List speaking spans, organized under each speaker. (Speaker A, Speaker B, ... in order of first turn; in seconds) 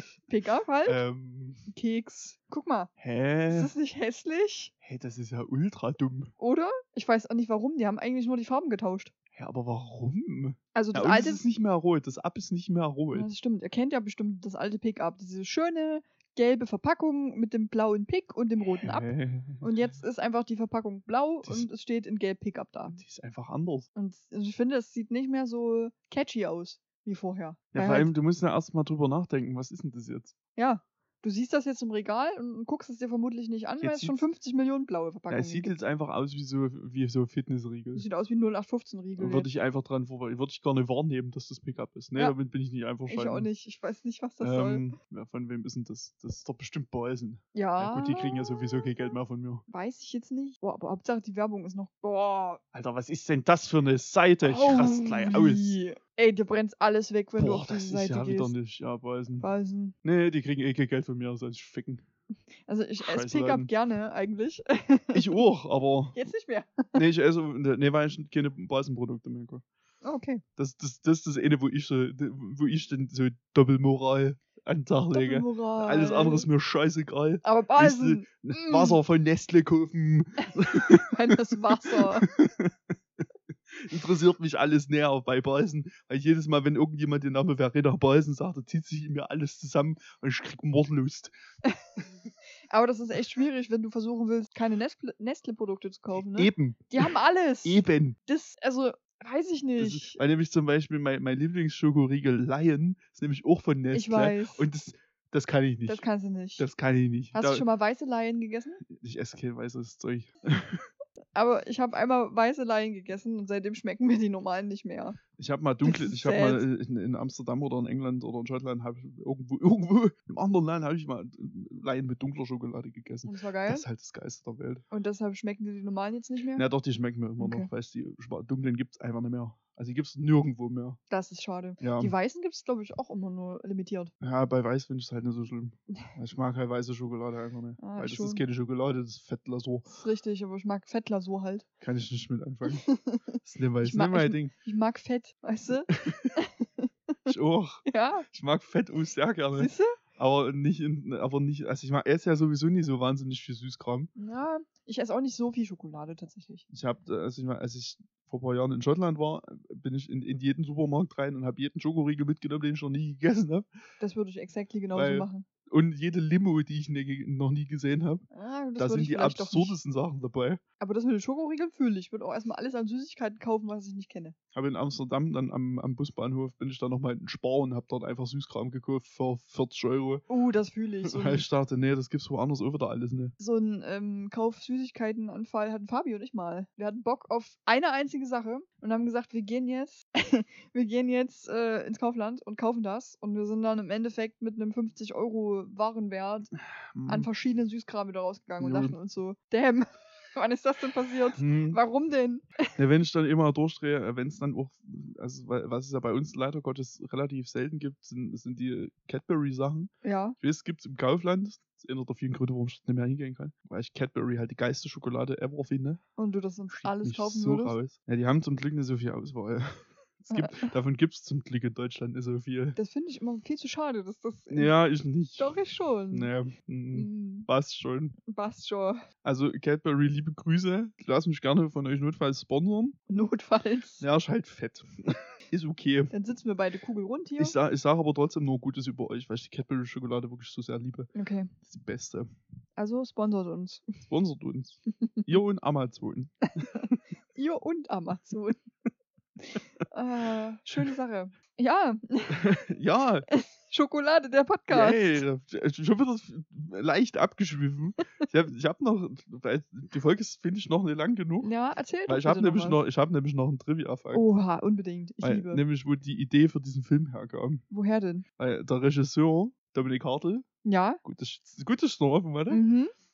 Speaker A: 0.2-1.0, 1.7-2.9, 3.5-4.7, 6.4-9.1, 10.7-11.4, 13.1-23.0, 23.9-28.1, 30.6-35.7, 37.9-39.5, 43.1-44.9, 47.5-49.1, 49.7-52.6, 54.4-58.5, 59.4-59.9, 62.6-65.4, 66.1-67.0, 70.0-70.4, 75.1-76.5, 77.4-79.0, 80.4-82.3, 92.7-100.2, 103.9-104.7, 105.9-106.7, 107.3-108.8, 111.3-115.2, 115.8-116.6, 123.2-123.8, 124.9-126.7, 127.4-127.7, 131.1-134.1, 137.8-138.4, 139.9-141.7, 142.7-147.3, 147.8-148.2, 149.5-149.9, 154.2-156.7, 164.0-165.4, 168.3-169.8, 170.8-174.3, 180.3-181.5, 183.4-196.5, 197.1-202.7, 210.0-210.4, 216.2-217.8, 220.3-220.7, 222.8-224.7, 225.4-226.3, 226.9-227.5, 228.3-229.0, 233.1-234.0, 236.1-237.6, 241.1-241.5, 242.8-244.0, 247.3-248.6, 249.5-252.5, 253.3-255.2, 261.4-262.8, 264.1-265.6, 267.7-268.2, 270.6-271.0, 272.5-272.9
Speaker B: 0.8-1.6, 3.0-3.7, 4.8-6.3, 9.3-13.3, 18.6-19.9, 22.9-23.9, 27.7-30.3, 33.8-34.2, 35.3-38.0, 39.2-43.5, 44.4-49.6, 52.7-55.8, 57.4-59.5, 60.0-62.0, 63.0-63.7, 65.1-66.3, 66.9-69.6, 70.6-81.4, 81.9-91.3, 96.1-97.1, 97.6-98.2, 99.8-106.0, 106.6-107.7, 108.8-110.8, 115.3-124.8, 126.5-131.0, 131.8-132.1, 134.2-139.9, 141.8-142.8, 143.4-144.5, 145.9-146.3, 147.3-154.1, 156.7-163.7, 164.9-168.2, 168.8-170.6, 174.5-180.2, 181.1-183.3, 196.8-197.3, 198.6-198.9, 201.4-201.8, 202.8-216.0, 216.7-222.8, 224.5-225.6, 226.1-228.2, 229.2-233.0, 234.0-236.1, 237.4-241.1, 241.6-242.3, 244.1-247.0, 252.3-253.3, 254.7-261.5, 262.1-264.2, 265.2-267.6, 268.4-270.4, 271.0-272.6